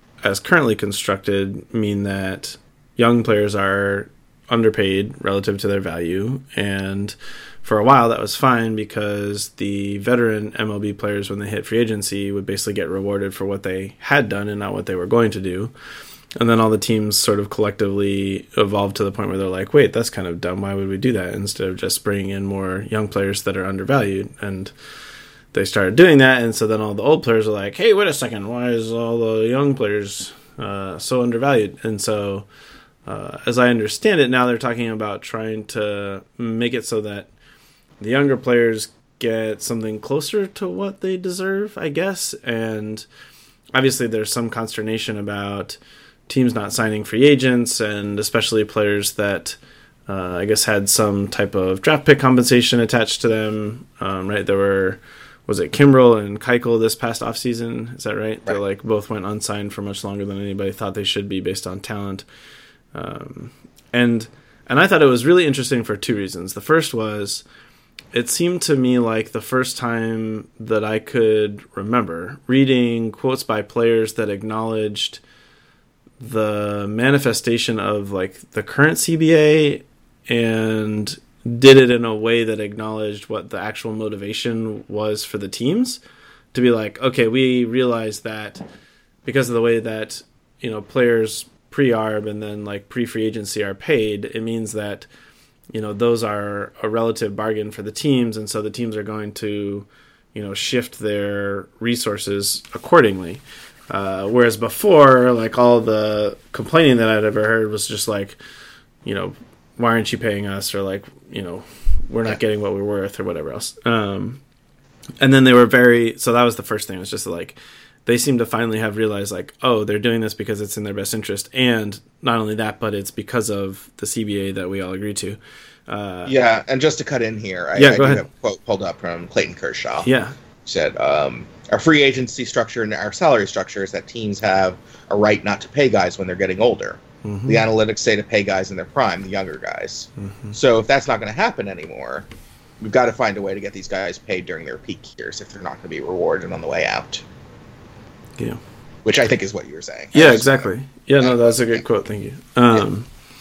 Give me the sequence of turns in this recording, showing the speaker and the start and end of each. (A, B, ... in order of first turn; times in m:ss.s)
0:00.2-0:15.7 A
0:16.4-0:24.7 A
0:25.5-0:32.5 A
0:33.1-0:37.3 A
0:38.0-0:43.1 A
0:43.7-1:02.2 A
1:02.9-1:07.4 A
1:08.1-1:15.2 A
1:16.2-1:26.0 A
1:26.5-1:28.6 A
1:29.2-1:35.1 A
1:35.7-1:48.4 A
1:49.0-1:54.4 A
1:55.2-2:06.3 A
2:06.2-2:10.1 B
2:07.8-2:08.3 A
2:10.0-2:10.3 A
2:10.7-2:22.3 B
2:17.2-2:17.6 A
2:20.2-2:20.6 A
2:22.8-2:27.2 B
2:29.0-2:30.7 B
2:30.1-2:33.1 A
2:31.2-2:31.8 B